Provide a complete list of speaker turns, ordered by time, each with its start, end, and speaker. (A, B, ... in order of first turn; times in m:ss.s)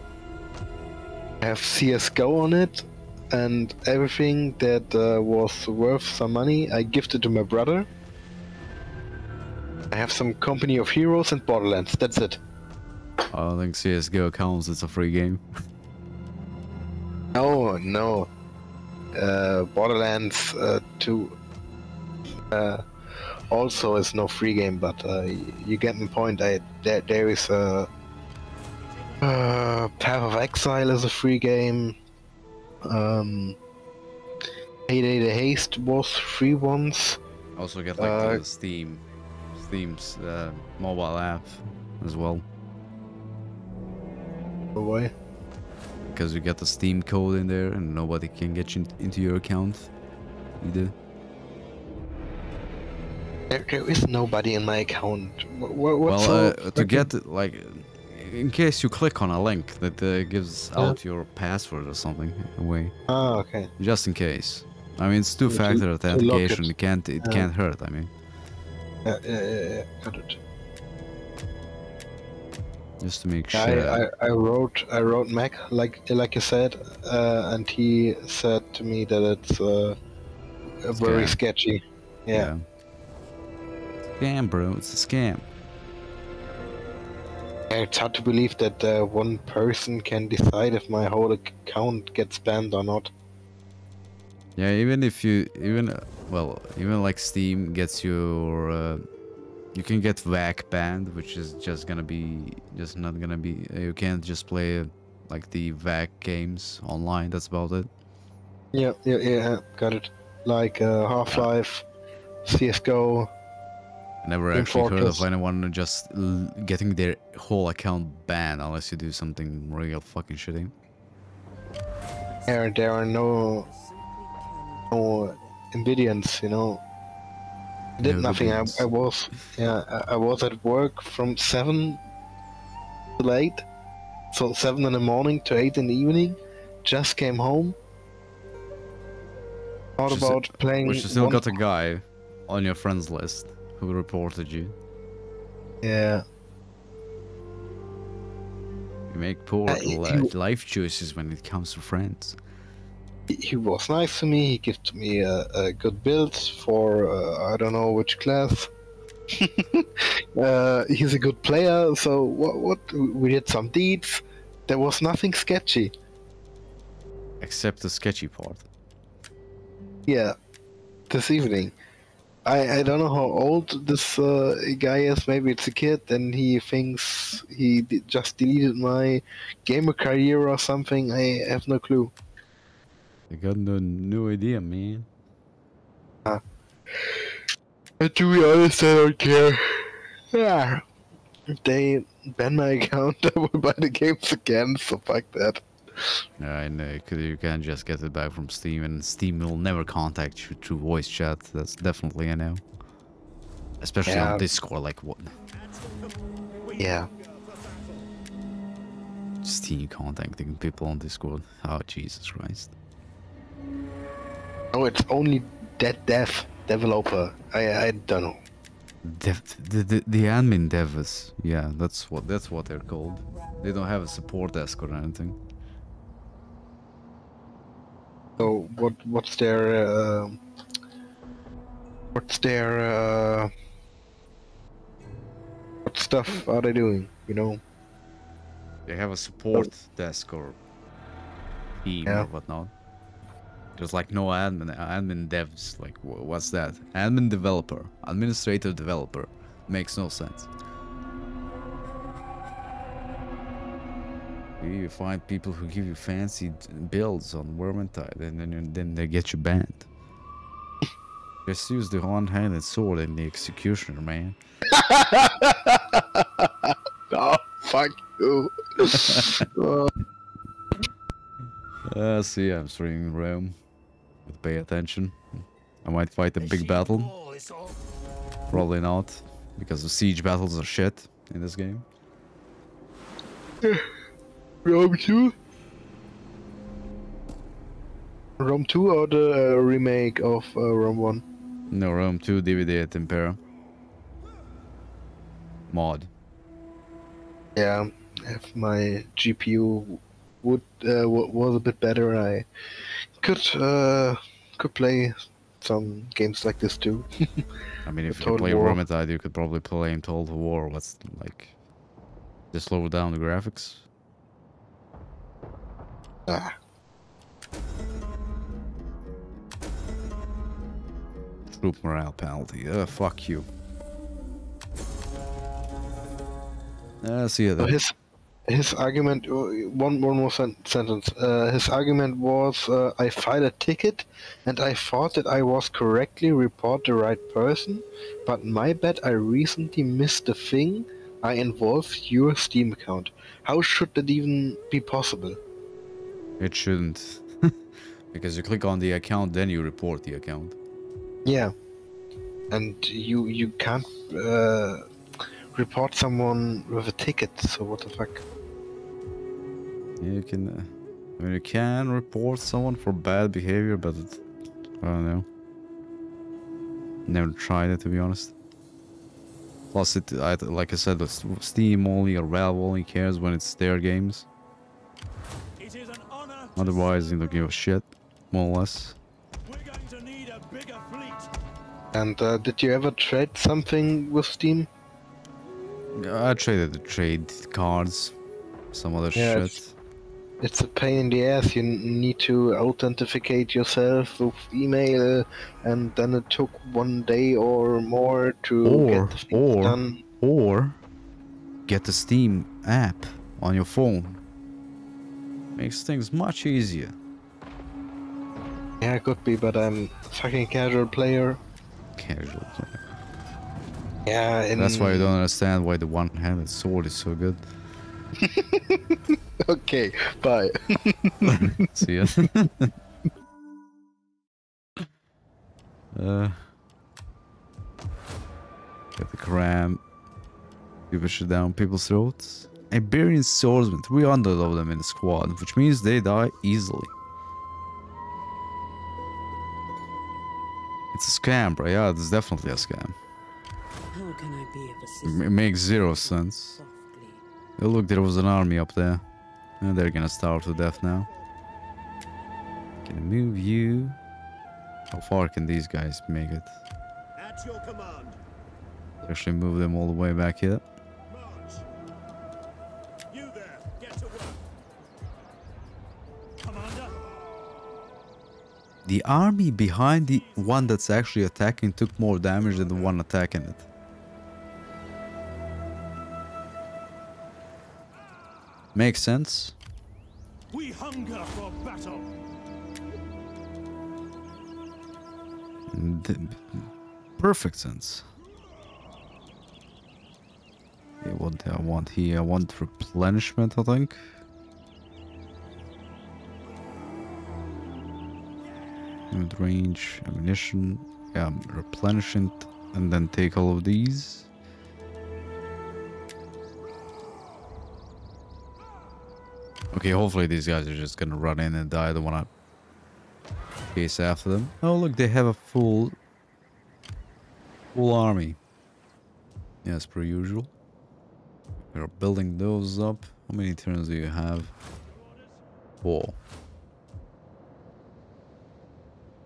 0:01.4-0:07.9 A
0:09.9-0:12.4 A
0:13.3-0:15.4 B
0:17.3-0:18.3 A
0:19.1-0:21.4 A
0:22.5-0:22.8 A
0:23.5-0:27.9 A
0:29.2-0:32.0 A
0:32.8-0:33.6 A
0:34.9-0:37.2 A
0:37.6-0:39.0 B
0:38.0-0:38.4 A
0:39.5-0:42.4 B
0:44.8-0:45.1 A
0:46.0-0:49.9 B
0:50.6-0:50.9 B
0:53.5-0:57.1 A
0:56.0-1:02.9 B
1:03.1-1:03.7 A
1:03.8-1:08.1 B
1:05.5-1:06.7 A
1:09.0-1:10.4 A
1:13.0-1:14.0 B
1:13.5-1:20.0 A
1:20.8-1:22.5 A
1:20.9-1:21.4 B
1:22.3-1:22.6 B
1:24.2-1:25.5 B
1:27.7-1:33.1 A
1:34.6-1:39.0 B
1:39.7-1:47.9 B
1:48.7-1:51.8 A
1:52.4-1:53.3 A
1:54.2-2:00.7 B
1:54.5-1:55.2 A
2:02.2-2:02.8 C
2:02.5-2:03.7 A
2:03.5-2:05.7 C
2:04.9-2:06.8 A
2:08.0-2:08.9 B
2:08.0-2:12.0 A
2:13.2-2:13.6 A
2:14.3-2:17.8 A
2:20.0-2:21.5 A
2:20.0-2:24.8 B
2:25.8-2:26.2 A
2:29.1-2:32.4 B
2:29.7-2:30.3 A
2:33.3-2:38.7 A
2:39.3-2:45.9 A
2:47.4-2:48.7 B
2:50.1-2:50.4 A
2:51.1-2:51.7 A
2:52.4-3:02.1 A
3:03.3-3:05.1 B
3:06.9-3:07.3 A
3:08.0-3:10.8 A
3:11.6-3:16.2 A
3:16.4-3:22.6 B
3:23.8-3:25.3 B
3:24.0-3:24.4 A
3:25.5-3:28.1 D
3:26.8-3:27.1 A
3:29.4-3:32.7 B
3:34.7-3:38.4 A
3:39.0-3:45.4 B
3:48.4-3:50.4 A
3:52.1-3:53.5 A
3:55.8-3:57.6 A
3:58.8-4:00.6 B
4:01.8-4:02.7 B
4:03.8-4:10.5 B
4:14.6-4:19.9 B
4:21.4-4:24.4 B
4:24.7-4:29.9 A
4:28.9-4:29.5 B
4:31.8-4:33.5 B
4:34.2-4:37.1 B
4:36.4-4:37.7 E
4:38.5-4:41.8 B
4:43.6-4:43.9 A
4:44.6-4:45.3 A
4:48.4-4:51.2 A
4:51.7-4:53.4 B
4:55.7-4:56.1 B
4:57.6-5:02.5 A
5:03.2-5:07.4 A
5:07.8-5:11.5 B
5:08.1-5:08.8 A
5:12.5-5:13.8 B
5:16.3-5:16.5 A
5:21.5-5:23.5 B
5:27.0-5:27.8 B
5:27.6-5:27.9 A
5:28.5-5:45.4 A
5:46.4-5:47.6 B
5:48.1-5:50.6 B
5:51.2-5:51.5 A
5:52.5-5:54.9 A
5:55.5-5:58.2 A
6:00.0-6:04.2 B
6:04.8-6:05.3 B
6:07.0-6:08.3 B
6:09.7-6:14.2 B
6:15.6-6:17.2 E
6:16.6-6:19.0 B
6:19.4-6:21.3 E
6:21.9-6:24.7 A
6:25.9-6:28.2 B
6:28.7-6:29.7 B
6:29.1-6:29.6 A
6:30.4-6:40.0 A
6:38.6-6:40.8 B
6:41.6-6:44.2 B
6:45.6-6:47.0 B
6:48.8-6:51.4 A
6:52.0-6:52.8 B
6:54.0-6:55.1 A
6:54.6-6:57.4 B
6:58.2-7:02.2 A
7:01.2-7:02.7 B
7:05.9-7:06.5 B
7:09.0-7:09.8 B
7:10.9-7:16.9 B
7:20.9-7:22.9 B
7:23.9-7:27.2 C
7:25.0-7:26.6 B
7:27.6-7:29.0 B
7:29.6-7:31.1 B
7:30.4-7:31.3 D
7:32.8-7:34.0 B
7:34.9-7:36.6 B
7:37.2-7:38.2 D
7:39.0-7:40.6 B
7:41.1-7:41.6 D
7:43.1-7:44.5 D
7:46.4-7:46.9 E
7:48.8-7:53.7 B
7:58.7-7:59.6 B
8:00.5-8:02.1 E
8:05.7-8:08.0 B
8:11.0-8:14.1 B
8:19.1-8:24.3 B
8:29.7-8:32.3 B
8:33.7-8:36.0 B
8:37.7-8:38.4 B
8:39.6-8:40.5 B
8:41.6-8:44.5 B
8:45.8-8:46.2 B